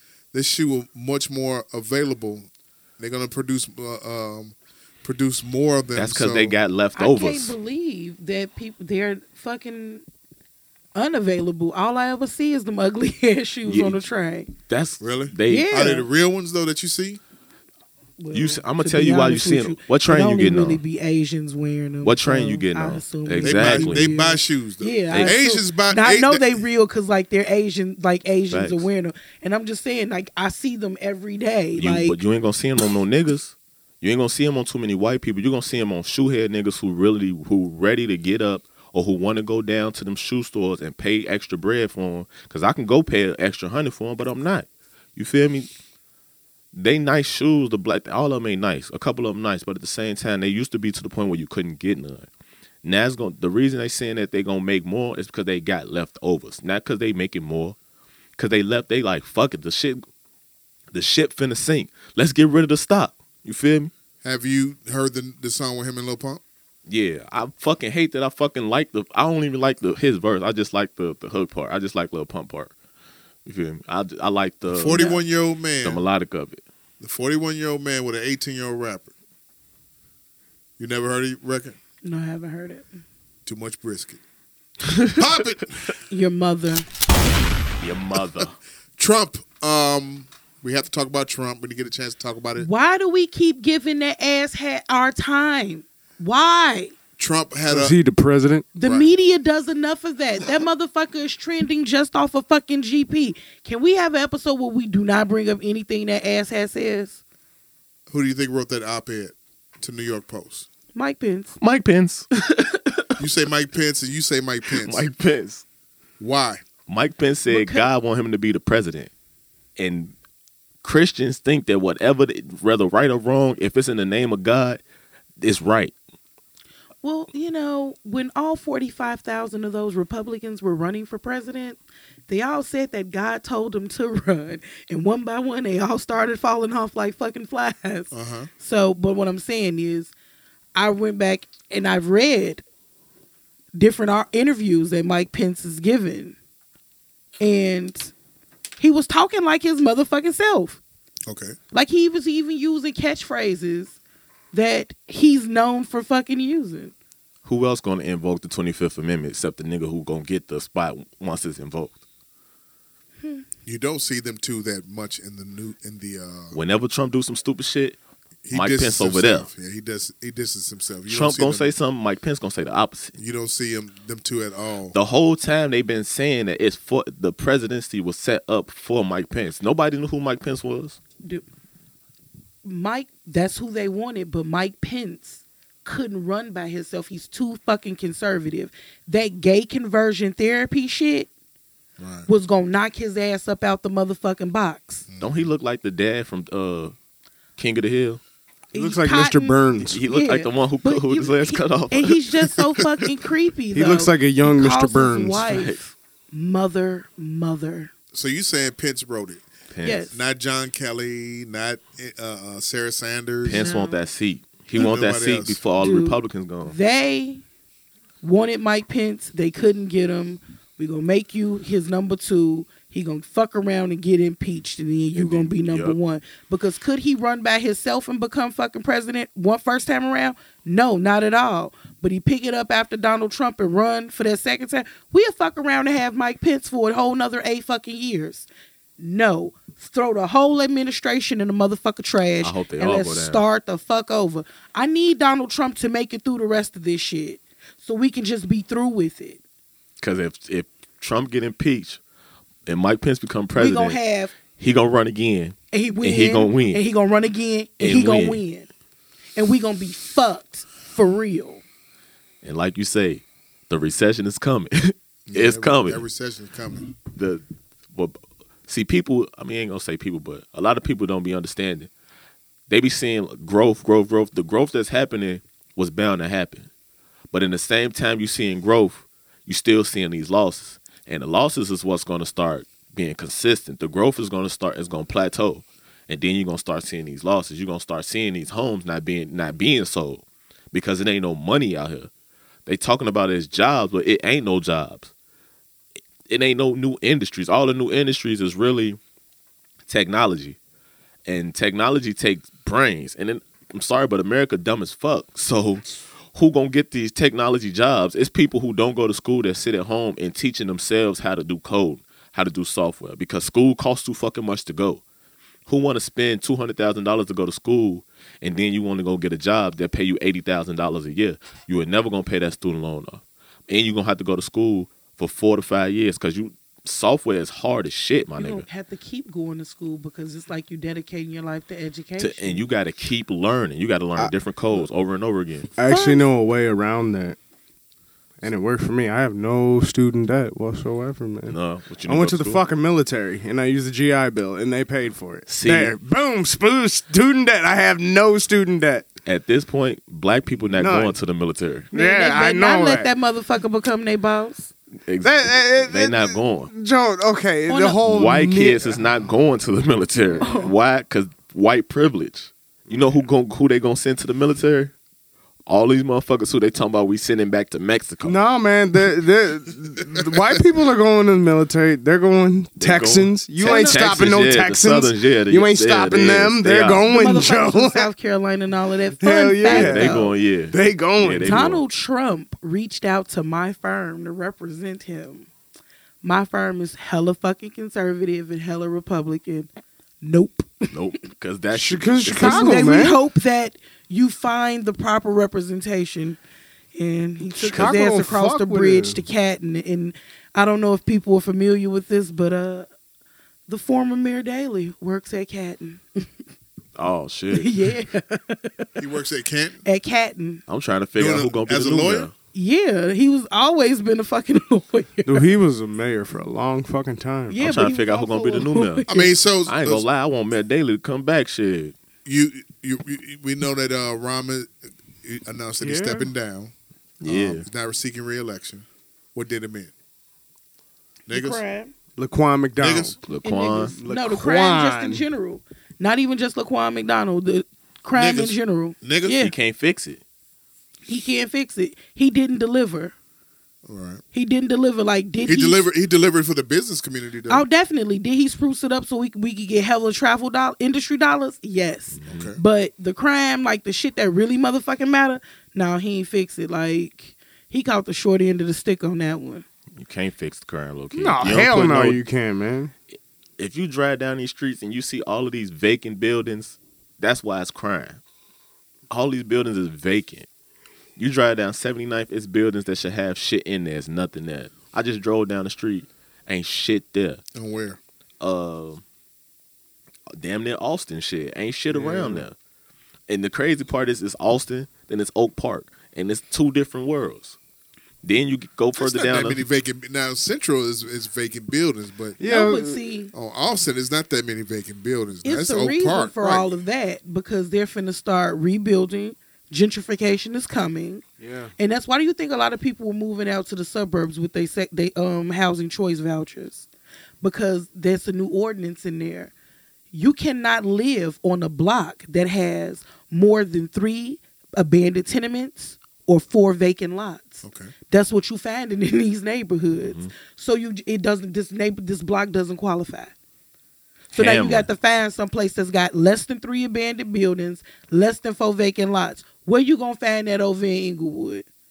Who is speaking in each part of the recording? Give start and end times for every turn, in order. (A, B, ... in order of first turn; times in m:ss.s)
0:00.3-0:02.5 A
0:03.0-0:06.6 A
0:05.9-0:07.6 B
0:07.0-0:10.0 C
0:11.0-0:14.5 C
0:13.6-0:14.0 B
0:14.7-0:15.8 B
0:15.0-0:17.2 A
0:15.5-0:16.1 C
0:18.2-0:32.2 C
0:18.3-0:20.8 B
0:22.0-0:24.1 B
0:23.4-0:26.6 A
0:28.5-0:28.9 B
0:31.8-0:45.7 B
0:46.7-0:52.3 B
0:52.8-0:57.8 B
0:58.4-1:00.0 B
1:00.9-1:03.9 B
1:04.2-1:06.4 A
1:06.9-1:12.7 B
1:13.5-1:15.2 B
1:14.7-1:16.0 A
1:14.9-1:15.2 C
1:15.8-1:16.6 B
1:17.0-1:19.1 A
1:20.8-1:21.8 A
1:22.0-1:22.9 C
1:23.5-1:24.2 A
1:24.9-1:25.1 B
1:25.1-1:25.8 A
1:26.1-1:26.9 C
1:27.8-1:28.5 B
1:29.0-1:32.7 A
1:32.6-1:36.9 C
1:37.2-1:38.0 A
1:37.7-1:38.7 D
1:38.8-1:47.2 C
1:38.8-1:39.1 A
1:48.1-1:50.7 A
1:50.9-1:51.6 C
1:51.6-1:53.2 B
1:53.2-1:55.1 A
1:54.8-1:55.6 B
1:56.2-1:56.6 A
1:56.9-1:59.1 B
1:57.5-1:57.9 C
1:59.8-2:00.1 B
2:00.8-2:04.8 B
2:05.4-2:05.9 B
2:07.0-2:20.1 C
2:18.1-2:18.5 A
2:20.8-2:22.6 C
2:23.8-2:26.4 C
2:27.4-2:28.1 C
2:28.8-2:30.8 C
2:31.3-2:31.6 A
2:31.7-2:34.0 C
2:34.5-2:36.9 C
2:37.4-2:42.0 B
2:43.7-2:46.6 A
2:46.5-2:48.0 B
2:48.4-2:51.7 A
2:48.5-2:49.5 B
2:51.1-2:53.2 B
2:53.2-2:55.0 A
2:54.9-3:01.0 B
3:02.6-3:11.3 C
3:12.0-3:12.3 A
3:12.3-3:15.1 C
3:15.1-3:15.5 A
3:15.2-3:17.0 B
3:17.6-3:18.2 B
3:18.7-3:25.8 C
3:18.7-3:20.0 D
3:19.9-3:22.8 B
3:23.7-3:25.5 D
3:25.5-3:25.9 B
3:26.3-3:27.9 C
3:28.1-3:29.4 A
3:29.7-3:30.1 B
3:29.8-3:30.2 C
3:30.1-3:33.7 A
3:33.4-3:36.8 B
3:33.5-3:34.0 C
3:34.8-3:35.6 A
3:35.8-3:37.4 C
3:38.2-3:58.5 C
3:45.2-3:46.0 B
3:59.0-4:09.4 C
4:02.4-4:03.4 B
4:10.0-4:12.0 B
4:12.7-4:14.0 B
4:13.6-4:14.3 C
4:14.5-4:16.8 B
4:15.7-4:18.7 C
4:17.8-4:18.4 B
4:19.4-4:21.6 C
4:22.4-4:26.0 B
4:25.3-4:26.9 A
4:27.1-4:31.9 B
4:32.7-4:36.7 B
4:37.3-4:52.1 B
4:52.7-4:55.1 B
4:56.3-4:59.0 B
4:59.9-5:00.6 B
5:01.3-5:15.0 B
5:15.7-5:28.6 B
5:28.4-5:32.6 C
5:32.2-5:35.7 B
5:34.2-5:34.9 D
5:35.8-5:37.4 D
5:35.9-5:36.2 C
5:38.4-5:49.1 D
5:41.5-5:42.6 B
5:45.5-5:46.0 B
5:49.3-5:51.9 B
5:50.8-5:51.2 D
5:51.9-5:53.1 D
5:51.9-5:54.7 C
5:55.1-5:56.7 B
5:55.2-5:59.0 D
5:57.7-5:58.0 C
5:58.0-6:04.9 B
6:00.4-6:00.7 C
6:05.7-6:08.4 B
6:08.2-6:18.1 D
6:12.8-6:17.1 B
6:13.6-6:14.1 C
6:17.1-6:20.3 C
6:19.2-6:21.7 D
6:19.7-6:21.8 B
6:21.5-6:25.5 C
6:26.2-6:29.7 C
6:30.2-6:30.9 C
6:30.9-6:32.9 B
6:31.7-6:33.2 D
6:32.4-6:36.4 C
6:37.0-6:42.9 C
6:37.5-6:39.2 D
6:43.7-6:46.3 C
6:47.0-6:47.9 B
6:47.5-6:49.0 C
6:49.0-6:49.8 A
6:49.8-6:50.6 C
6:50.7-6:52.3 B
6:51.2-6:52.3 A
6:52.5-6:55.5 C
6:55.2-6:57.6 D
6:57.5-6:59.3 C
6:57.6-6:59.1 B
6:59.1-7:00.0 A
6:59.7-7:01.9 B
7:02.2-7:06.7 A
7:05.8-7:06.3 D
7:07.2-7:07.6 B
7:07.2-7:09.9 A
7:11.3-7:11.6 A
7:11.3-7:11.9 C
7:12.2-7:13.2 D
7:12.8-7:13.2 A
7:13.3-7:14.0 B
7:13.4-7:19.5 C
7:14.0-7:15.2 D
7:18.2-7:19.4 A
7:19.3-7:20.2 B
7:21.1-7:23.1 C
7:23.9-7:24.2 A
7:24.3-7:25.9 C
7:25.5-7:27.6 A
7:27.5-7:39.6 C
7:32.2-7:32.5 B
7:32.3-7:32.6 A
7:40.0-7:42.2 B
7:41.1-7:42.9 D
7:43.6-7:48.2 B
7:49.1-7:50.5 B
7:51.2-7:57.4 B
7:57.5-7:58.0 A
7:58.4-7:59.0 B
8:00.4-8:02.6 B
8:01.9-8:02.4 D
8:03.3-8:07.6 B
8:08.2-8:09.6 B
8:09.0-8:12.4 A
8:12.4-8:13.0 D
8:12.4-8:13.3 C
8:13.3-8:16.7 A
8:15.4-8:21.2 C
8:21.4-8:21.7 D
8:21.8-8:26.9 C
8:27.4-8:29.5 C
8:30.1-8:43.3 C
8:37.6-8:37.9 A
8:40.0-8:40.3 B
8:44.3-8:51.7 C
8:44.3-8:44.9 B